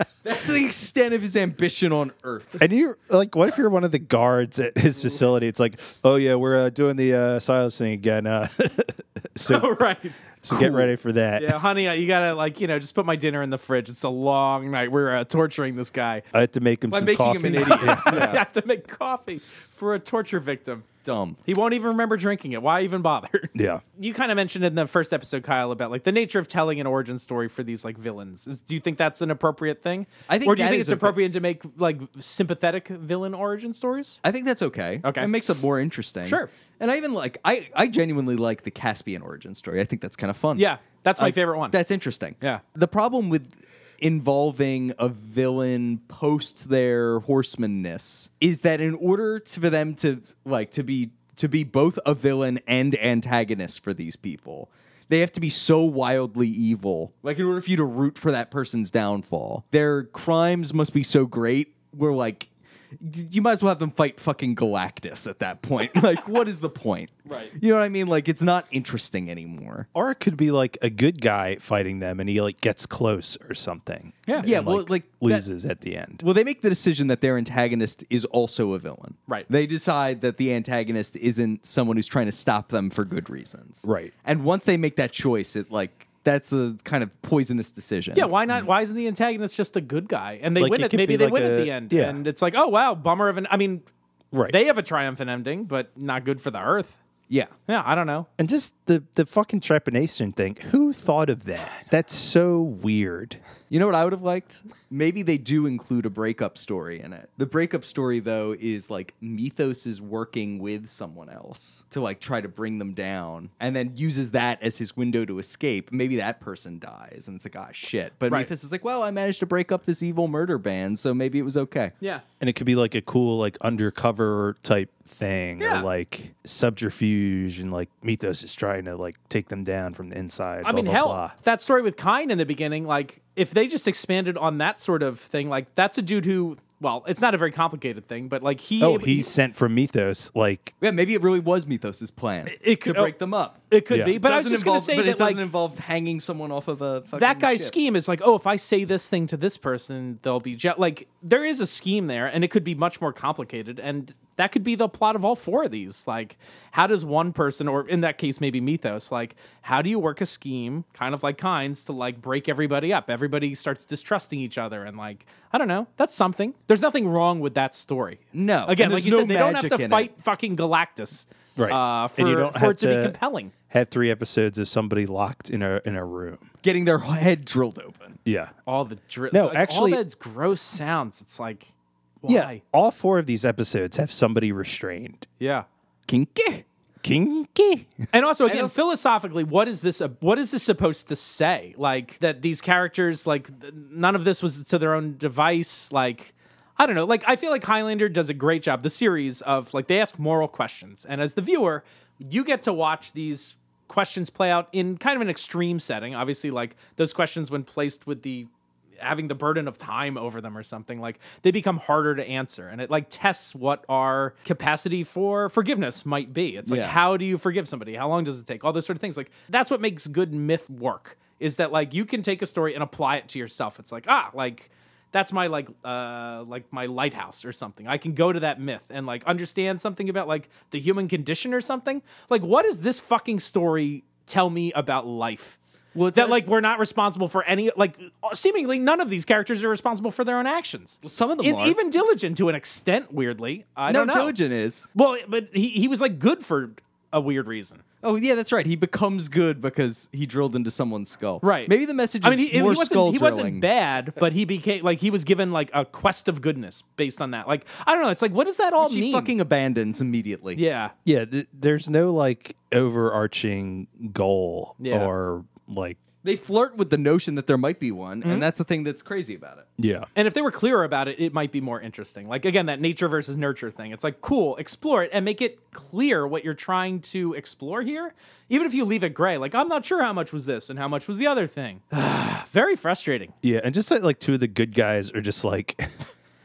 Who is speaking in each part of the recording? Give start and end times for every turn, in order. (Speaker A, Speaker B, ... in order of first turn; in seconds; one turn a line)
Speaker A: 0.2-2.6
Speaker B: 2.6-9.7
Speaker C: 9.4-10.2
Speaker B: 10.4-11.6
Speaker C: 11.4-16.3
Speaker B: 16.3-18.4
Speaker A: 16.9-18.4
Speaker C: 17.6-20.9
Speaker A: 21.1-21.4
Speaker C: 21.5-34.2
Speaker B: 23.6-23.8
Speaker A: 30.3-31.2
Speaker A: 34.2-62.5
Speaker C: 35.0-35.3
Speaker C: 36.2-36.5
Speaker C: 40.5-41.8
Speaker A: 63.0-69.9
Speaker C: 67.3-67.5
Speaker B: 70.0-76.2
Speaker A: 74.4-75.5
Speaker A: 76.2-88.3
Speaker B: 83.8-84.1
Speaker C: 88.1-93.8
Speaker B: 90.6-92.2
Speaker B: 94.3-94.6
Speaker C: 94.5-97.0
Speaker A: 97.3-97.5
Speaker C: 97.7-98.3
Speaker B: 98.4-103.4
Speaker A: 103.7-121.9
Speaker B: 122.4-131.3
Speaker C: 125.6-125.9
Speaker C: 130.6-139.3
Speaker B: 138.8-140.7
Speaker A: 140.8-147.7
Speaker C: 142.5-143.1
Speaker C: 143.7-145.4
Speaker B: 143.9-144.2
Speaker C: 147.2-173.5
Speaker A: 168.3-170.1
Speaker B: 171.6-173.2
Speaker B: 173.7-176.5
Speaker A: 176.6-178.2
Speaker B: 178.2-178.5
Speaker C: 178.7-181.7
Speaker B: 179.3-180.0
Speaker C: 182.2-182.6
Speaker B: 182.3-185.3
Speaker C: 185.4-185.7
Speaker A: 186.1-186.7
Speaker B: 187.0-188.1
Speaker C: 188.1-208.5
Speaker A: 188.5-188.8
Speaker C: 209.0-235.6
Speaker A: 216.7-217.0
Speaker A: 235.9-236.5
Speaker C: 236.1-244.3
Speaker A: 241.0-241.8
Speaker A: 243.9-244.9
Speaker C: 244.9-247.8
Speaker A: 248.0-253.7
Speaker C: 251.4-259.3
Speaker A: 258.8-260.6
Speaker C: 260.6-260.9
Speaker B: 261.1-266.0
Speaker C: 264.8-265.1
Speaker A: 266.2-269.7
Speaker B: 269.8-270.1
Speaker C: 270.2-283.3
Speaker B: 283.4-286.1